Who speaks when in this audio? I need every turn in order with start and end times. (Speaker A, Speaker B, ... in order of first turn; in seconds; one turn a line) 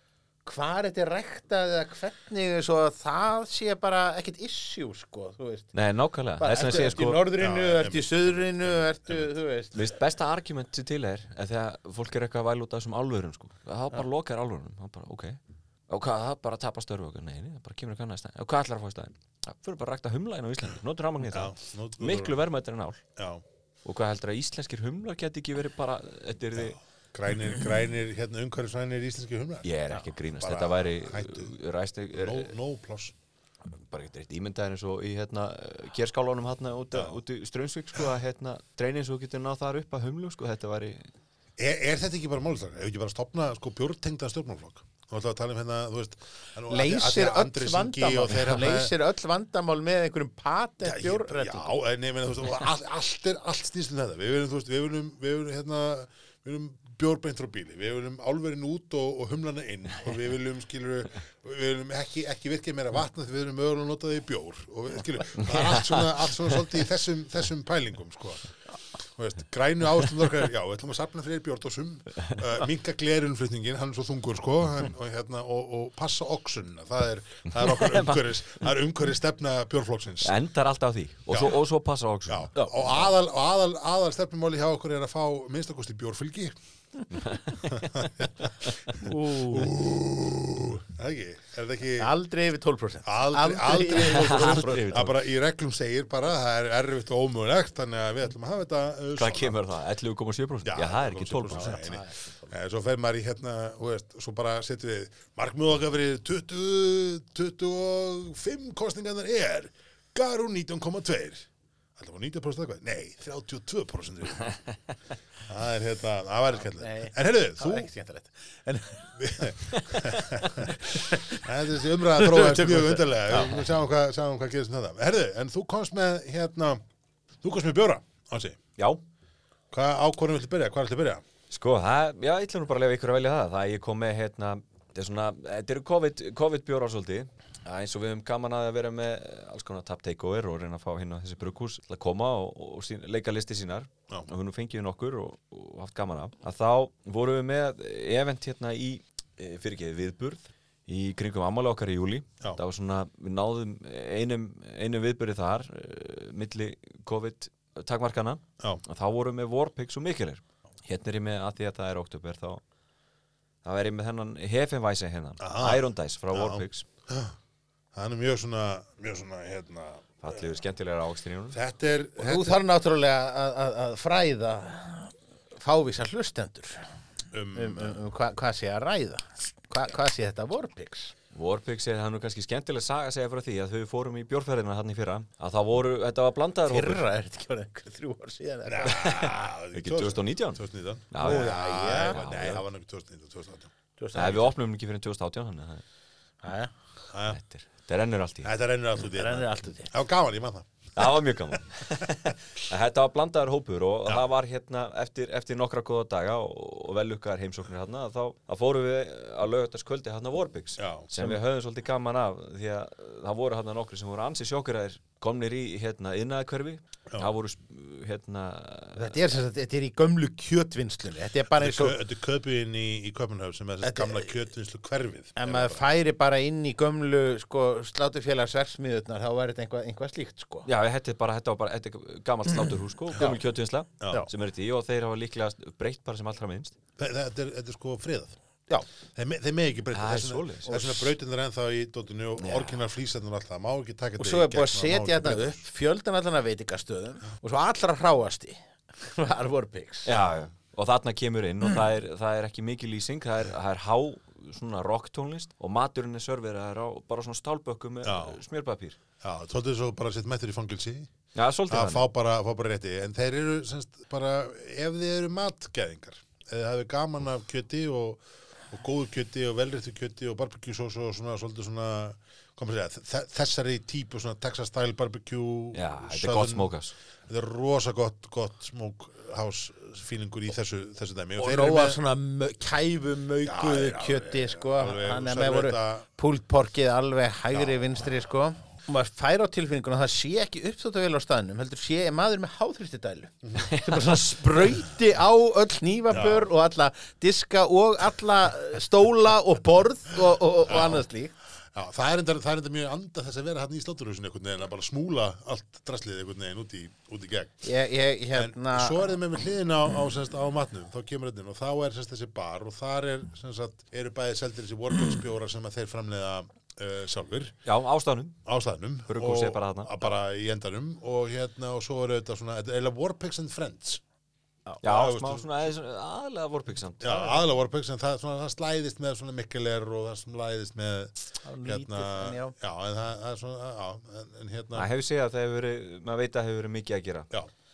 Speaker A: 0.5-5.7
Speaker B: 5.7-7.2
Speaker A: 6.4-9.8
Speaker C: 7.4-9.3
Speaker B: 9.7-23.0
Speaker C: 21.2-22.4
Speaker C: 23.2-23.4
Speaker B: 23.9-26.8
Speaker C: 26.6-29.7
Speaker B: 29.6-32.6
Speaker C: 30.4-31.5
Speaker C: 32.1-33.1
Speaker B: 33.7-41.1
Speaker C: 41.6-48.9
Speaker A: 46.7-51.7
Speaker C: 50.8-80.3
Speaker B: 65.4-66.2
Speaker B: 77.6-78.7
Speaker B: 80.2-83.0
Speaker C: 81.3-81.6
Speaker C: 82.3-86.5
Speaker A: 82.5-83.1
Speaker B: 87.1-87.9
Speaker C: 87.7-88.5
Speaker B: 88.6-89.0
Speaker A: 89.0-89.7
Speaker C: 89.1-92.1
Speaker A: 92.0-94.9
Speaker C: 93.0-99.6
Speaker B: 93.9-95.1
Speaker B: 99.2-101.8
Speaker C: 100.7-114.6
Speaker A: 101.5-102.5
Speaker C: 115.5-117.9
Speaker A: 116.6-121.6
Speaker C: 119.2-126.8
Speaker A: 122.1-123.7
Speaker C: 127.4-128.6
Speaker C: 129.7-131.2
Speaker B: 131.5-162.6
Speaker B: 163.6-166.8
Speaker C: 165.4-167.4
Speaker C: 167.9-170.6
Speaker B: 170.2-171.6
Speaker C: 171.5-172.6
Speaker A: 172.2-176.9
Speaker C: 177.3-178.0
Speaker A: 177.5-181.1
Speaker B: 181.3-187.0
Speaker A: 186.7-189.3
Speaker C: 188.7-193.7
Speaker B: 188.8-192.6
Speaker A: 191.2-192.2
Speaker A: 194.0-194.5
Speaker B: 194.1-195.8
Speaker A: 196.4-196.7
Speaker C: 197.1-197.4
Speaker B: 197.3-198.5
Speaker C: 198.4-202.1
Speaker A: 199.1-199.9
Speaker B: 201.0-219.2
Speaker C: 210.8-211.1
Speaker A: 219.0-222.0
Speaker C: 221.6-225.9
Speaker A: 223.8-224.3
Speaker A: 225.4-230.7
Speaker B: 230.7-236.8
Speaker C: 233.2-233.4
Speaker C: 234.0-234.3
Speaker C: 237.0-238.3
Speaker C: 239.1-245.6
Speaker B: 239.9-240.7
Speaker A: 240.7-241.1
Speaker B: 242.4-242.8
Speaker A: 244.2-250.1
Speaker B: 250.1-259.0
Speaker C: 250.2-250.5
Speaker C: 258.0-258.4
Speaker C: 259.2-261.1
Speaker B: 261.4-262.0
Speaker C: 261.7-276.7
Speaker B: 275.7-276.9
Speaker C: 277.3-282.0
Speaker A: 281.4-301.3
Speaker C: 283.4-286.1
Speaker C: 287.5-287.8
Speaker B: 293.7-294.1
Speaker C: 296.1-296.5
Speaker C: 300.7-301.1
Speaker C: 301.7-307.7
Speaker A: 307.6-309.1
Speaker C: 308.3-317.6
Speaker B: 317.6-318.4
Speaker C: 318.5-324.0
Speaker B: 319.1-320.1
Speaker B: 324.8-327.4
Speaker C: 324.8-325.7
Speaker C: 327.0-334.9
Speaker A: 331.4-332.6
Speaker B: 334.8-337.3